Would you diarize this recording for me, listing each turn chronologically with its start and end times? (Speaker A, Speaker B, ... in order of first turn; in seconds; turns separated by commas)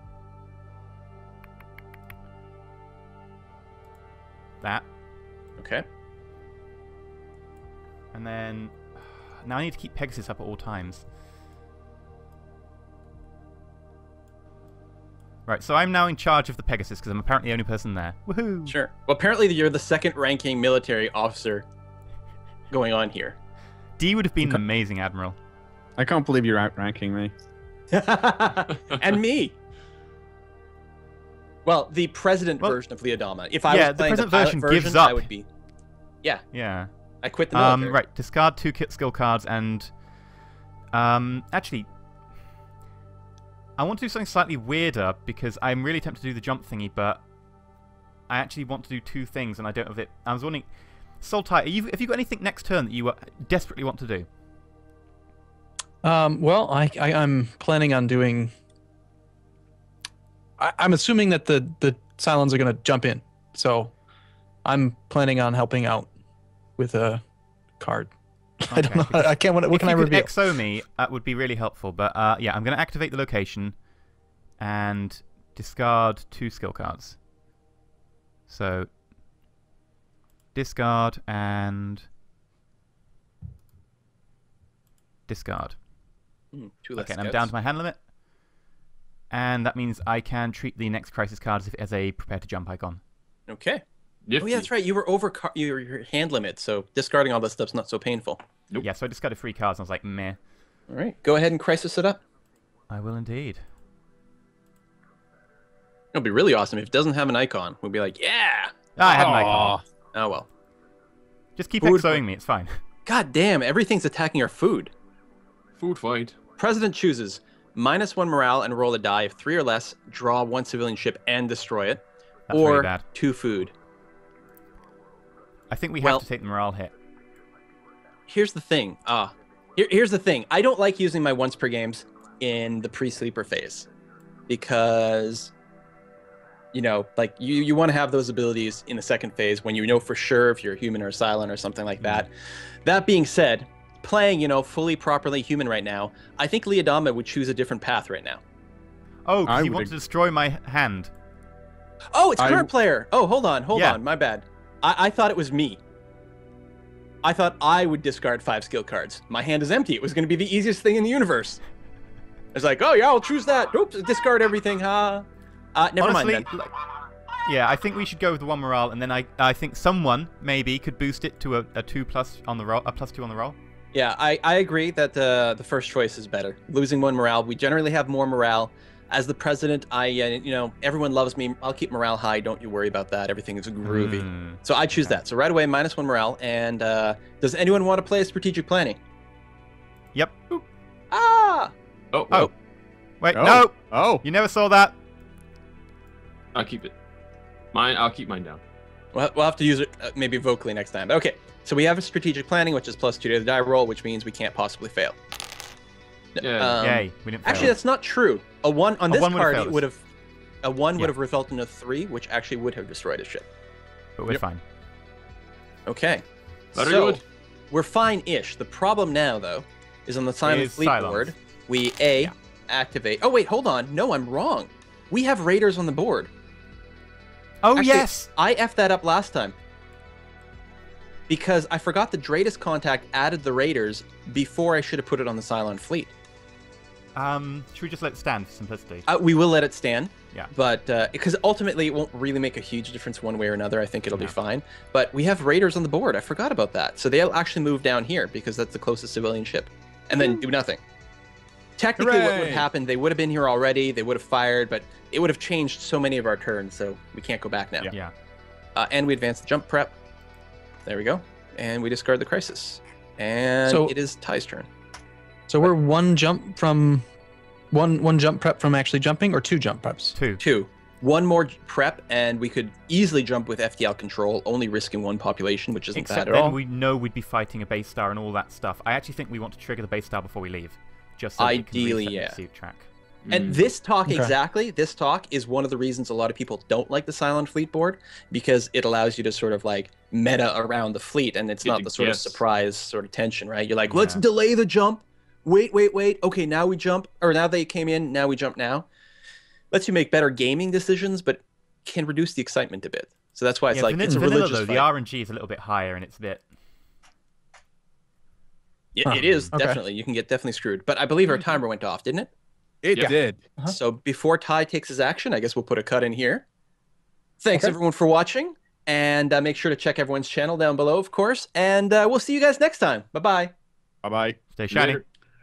Speaker A: 5.6-5.8, Speaker B: 8.1-11.1, Speaker B: 15.5-18.8, Speaker A: 18.7-21.6, Speaker A: 22.7-23.4, Speaker B: 24.0-25.4, Speaker C: 26.0-27.3, Speaker A: 27.9-29.6, Speaker A: 31.6-35.5, Speaker B: 33.7-35.3, Speaker B: 36.5-36.9, Speaker A: 37.2-38.0, Speaker B: 37.5-39.9, Speaker B: 40.9-41.9, Speaker B: 43.8-47.2, Speaker B: 48.3-54.3, Speaker D: 56.0-58.5, Speaker D: 60.6-63.9, Speaker D: 64.6-66.1, Speaker D: 66.8-67.2, Speaker D: 67.8-70.3, Speaker B: 68.7-73.8, Speaker B: 74.6-77.2, Speaker B: 78.5-78.9, Speaker B: 80.5-82.1, Speaker B: 85.3-85.8, Speaker A: 86.5-87.5, Speaker B: 87.0-88.0, Speaker B: 89.3-93.0, Speaker A: 93.5-93.8, Speaker E: 94.3-94.7, Speaker A: 94.4-98.4, Speaker B: 98.8-100.4, Speaker A: 100.9-102.2, Speaker B: 102.9-103.6, Speaker A: 106.1-109.4, Speaker B: 109.0-109.8, Speaker C: 109.0-109.8, Speaker A: 110.1-110.5, Speaker B: 111.6-112.8, Speaker A: 111.8-112.2, Speaker A: 113.0-114.9, Speaker E: 115.8-116.4, Speaker A: 116.6-123.7, Speaker B: 122.5-123.0, Speaker B: 125.7-126.9, Speaker A: 128.3-133.9, Speaker A: 134.5-135.5, Speaker A: 136.7-142.3, Speaker A: 142.8-148.4, Speaker B: 149.3-151.1, Speaker C: 149.4-149.9, Speaker A: 152.1-155.8, Speaker C: 152.4-152.7, Speaker B: 153.7-154.0, Speaker A: 157.2-161.6, Speaker A: 162.5-166.5, Speaker B: 166.0-166.7, Speaker B: 167.4-173.6, Speaker A: 173.9-189.0, Speaker B: 183.8-185.2, Speaker B: 190.1-190.6, Speaker A: 191.1-191.7, Speaker E: 192.1-192.5, Speaker B: 193.2-194.9, Speaker C: 193.3-194.2, Speaker E: 196.5-196.9, Speaker E: 197.7-198.6, Speaker A: 199.1-205.2, Speaker A: 206.3-210.0, Speaker E: 206.4-207.0, Speaker B: 206.8-207.8, Speaker B: 209.1-209.8, Speaker A: 210.6-213.5, Speaker B: 214.2-214.6, Speaker A: 215.9-226.3, Speaker E: 216.8-217.2, Speaker B: 220.4-221.3, Speaker B: 227.6-228.3, Speaker A: 227.8-229.6, Speaker A: 231.3-236.1, Speaker B: 237.2-239.1, Speaker A: 239.1-250.8, Speaker A: 251.8-257.9, Speaker C: 252.0-252.7, Speaker A: 258.8-259.9, Speaker A: 260.9-264.7, Speaker D: 263.6-263.9, Speaker D: 265.5-267.1, Speaker D: 267.7-270.2, Speaker B: 270.1-270.4, Speaker A: 270.4-276.5, Speaker B: 275.9-282.9, Speaker D: 276.3-276.6, Speaker A: 281.4-282.4, Speaker E: 283.3-283.6, Speaker A: 283.3-298.9, Speaker D: 284.1-284.3, Speaker E: 291.6-292.4, Speaker B: 293.9-294.2, Speaker A: 299.7-304.9, Speaker B: 303.7-306.4, Speaker A: 308.9-312.3, Speaker D: 309.1-309.8, Speaker D: 312.8-313.8, Speaker C: 312.9-313.4, Speaker A: 313.7-316.4, Speaker A: 317.4-323.5, Speaker C: 324.0-324.4, Speaker B: 324.6-325.0, Speaker E: 324.7-325.0